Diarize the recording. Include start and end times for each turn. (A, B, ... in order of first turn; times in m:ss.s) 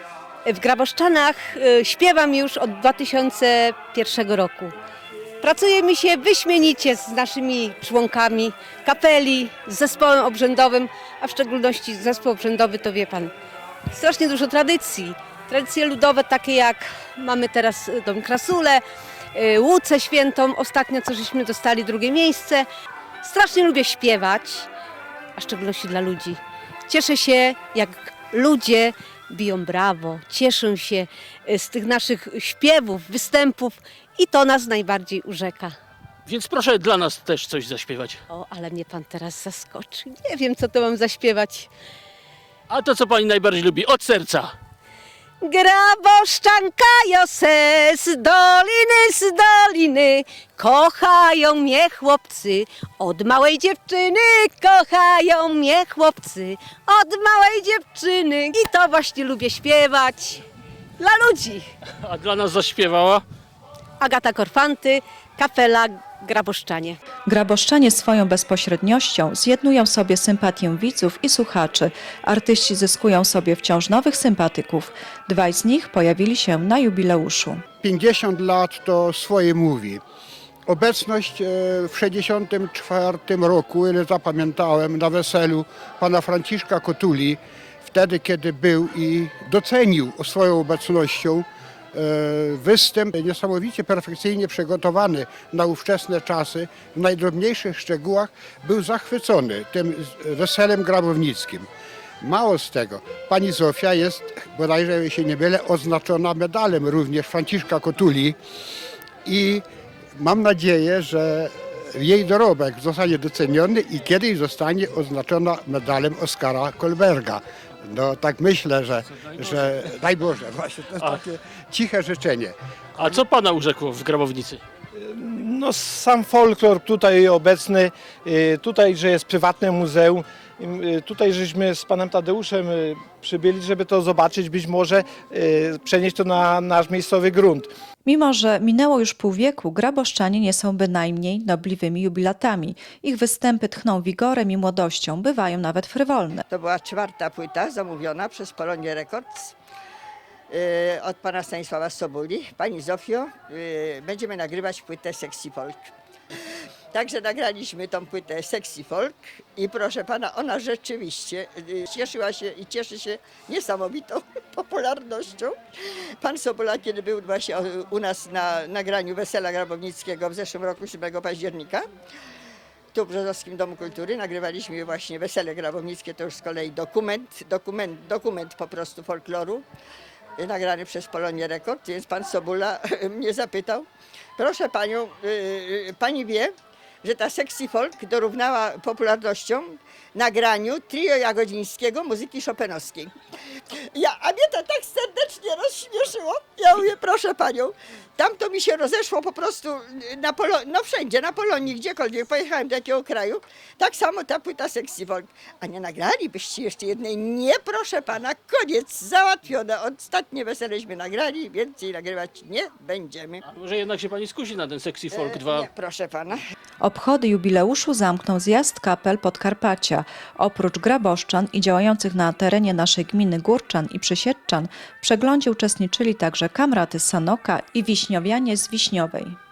0:00.4-0:04.7 A
0:05.4-0:13.3 A
0:13.9-0:18.8 A
0:19.3-0:22.7 A
0:23.2-0:24.7 A
0:25.4-0:35.8 A
0:36.3-0:38.2 B
0:38.3-0:41.7 A
0:42.7-0:44.5 B
0:45.4-1:00.4 A
1:01.0-1:01.7 A
1:02.1-1:03.2 B
1:04.0-1:07.0 A
1:07.3-1:17.6 C
1:17.8-1:20.0 D
1:20.7-1:41.7 D
1:42.2-1:48.4 D
1:49.2-1:49.6 D
1:50.2-2:03.2 D
1:59.4-1:59.8 B
2:03.0-2:04.6 B
2:05.0-2:17.7 E
2:18.0-2:26.5 C
2:26.5-2:29.5 F
2:30.5-2:35.9 F
2:36.9-2:45.6 F
2:46.2-2:51.9 F
2:52.9-2:59.6 F
3:00.4-3:13.1 F
3:13.9-3:33.4 F
3:33.4-3:35.7 B
3:35.1-3:36.4 F
3:36.8-3:49.4 C